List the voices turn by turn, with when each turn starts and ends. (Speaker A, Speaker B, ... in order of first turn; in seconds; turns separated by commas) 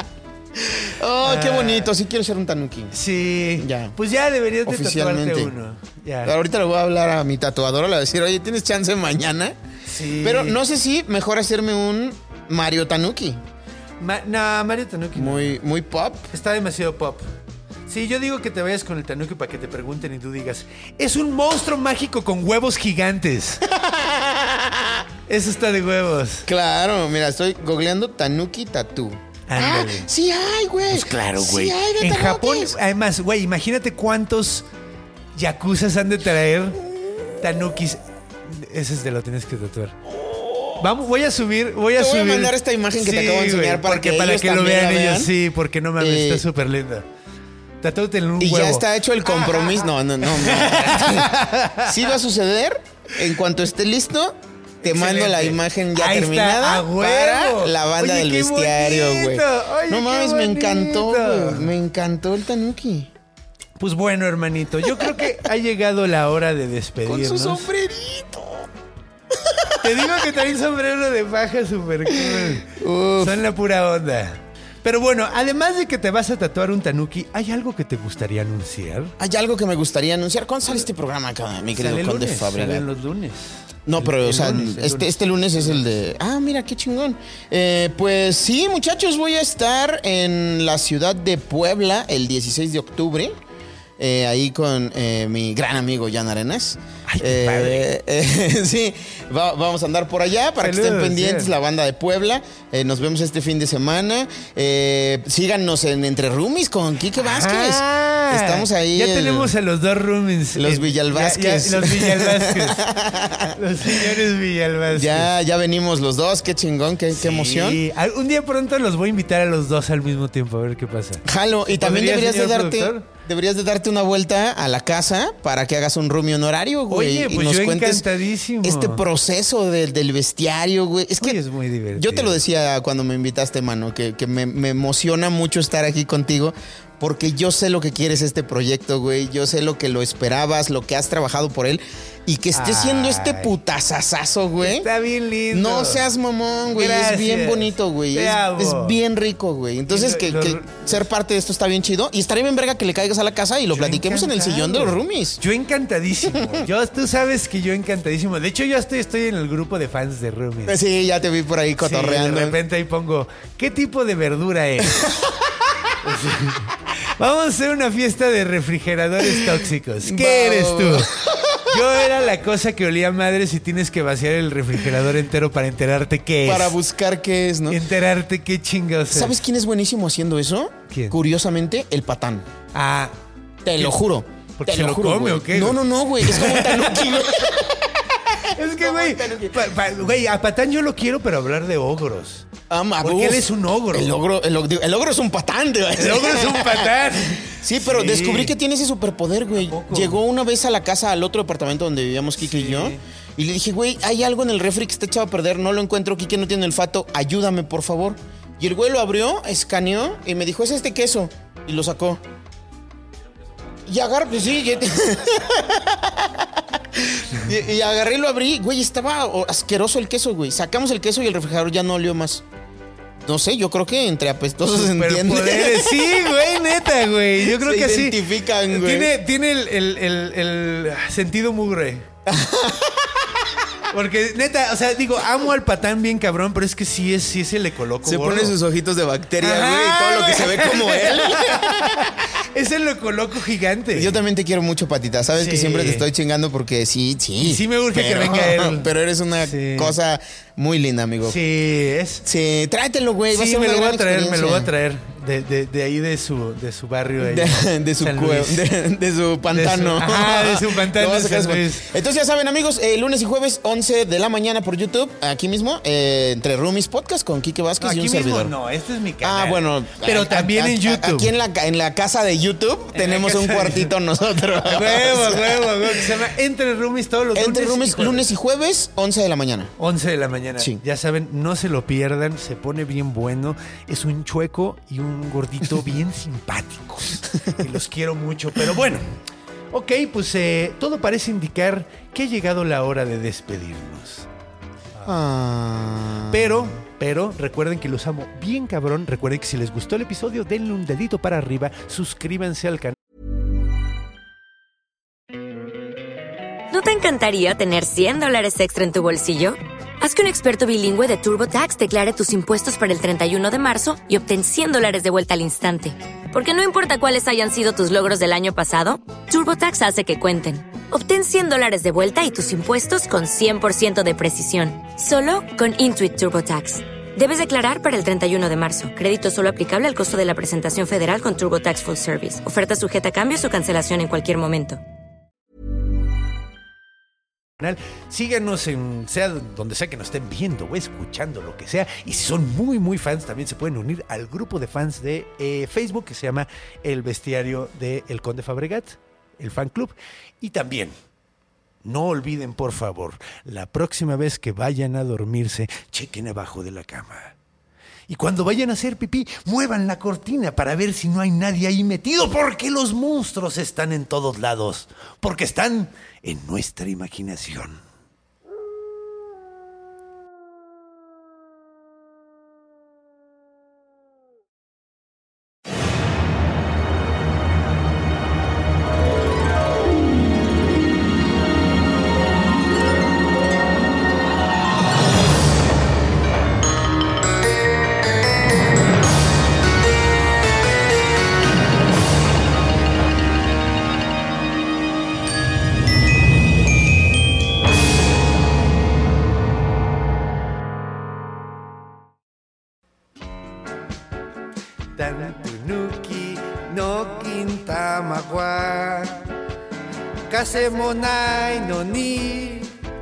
Speaker A: 0.6-2.9, Speaker B: 1.2-1.9, Speaker B: 2.9-6.3, Speaker A: 3.6-3.9, Speaker A: 4.7-5.5, Speaker A: 6.2-9.6, Speaker B: 9.8-10.6, Speaker A: 10.2-13.4, Speaker B: 14.0-15.6, Speaker A: 15.1-16.3, Speaker B: 16.3-17.2, Speaker B: 17.9-23.6, Speaker A: 23.6-25.0, Speaker B: 25.3-26.5, Speaker A: 26.5-32.8, Speaker B: 29.5-30.1, Speaker B: 30.9-34.6, Speaker B: 35.3-36.8, Speaker B: 37.4-40.0, Speaker A: 40.1-40.8, Speaker B: 40.8-47.0, Speaker A: 42.0-45.3, Speaker A: 46.0-46.4, Speaker B: 47.8-51.9, Speaker A: 48.4-63.1, Speaker B: 54.8-61.7, Speaker B: 63.8-67.7, Speaker A: 64.8-65.4, Speaker A: 67.0-68.7, Speaker A: 69.3-70.1, Speaker B: 69.8-79.1, Speaker A: 72.1-73.4, Speaker A: 79.2-82.8, Speaker B: 81.7-85.8, Speaker A: 83.8-93.3, Speaker A: 94.0-109.5, Speaker B: 97.1-97.9, Speaker B: 100.6-101.5, Speaker B: 107.2-112.8, Speaker A: 110.5-114.2, Speaker B: 113.5-115.3, Speaker A: 114.9-117.8, Speaker B: 117.1-123.0, Speaker A: 121.2-128.1, Speaker B: 126.9-129.0, Speaker A: 128.6-131.4, Speaker B: 131.2-132.4, Speaker A: 131.9-144.9, Speaker B: 142.5-143.5, Speaker B: 144.6-146.0, Speaker A: 145.5-155.4, Speaker B: 146.7-148.9, Speaker B: 149.9-151.1, Speaker B: 153.7-160.8, Speaker A: 156.3-156.6, Speaker A: 160.7-162.6, Speaker B: 161.8-165.0, Speaker B: 166.0-176.8, Speaker A: 170.0-171.9, Speaker A: 176.4-177.8, Speaker B: 177.7-179.3, Speaker A: 179.1-182.4, Speaker B: 180.9-181.2, Speaker B: 182.7-183.1, Speaker A: 183.6-189.9, Speaker B: 184.6-187.5, Speaker B: 188.4-192.5, Speaker A: 192.7-212.2, Speaker B: 193.0-194.1, Speaker B: 195.9-198.5, Speaker B: 199.6-200.2, Speaker B: 202.4-203.0, Speaker A: 213.8-222.4, Speaker A: 223.2-226.2, Speaker B: 224.7-232.1, Speaker A: 227.4-229.1, Speaker A: 232.2-233.5, Speaker B: 233.9-238.6, Speaker A: 238.0-242.3, Speaker B: 239.4-244.2, Speaker A: 243.9-251.4, Speaker B: 245.3-246.1, Speaker B: 247.4-250.0, Speaker B: 251.2-252.2, Speaker A: 252.2-254.7, Speaker B: 253.3-258.6, Speaker A: 257.2-268.5, Speaker B: 259.5-261.9, Speaker B: 267.8-271.3, Speaker A: 269.2-276.0, Speaker B: 272.9-273.9, Speaker B: 274.6-278.3, Speaker A: 277.3-279.7, Speaker B: 279.8-289.2, Speaker B: 289.7-294.3, Speaker A: 295.1-296.8, Speaker B: 296.3-302.9, Speaker C: 306.7-334.8, Speaker B: 337.6-350.9, Speaker B: 351.8-357.3, Speaker B: 358.1-367.8, Speaker B: 404.9-409.3, Speaker B: 410.3-412.7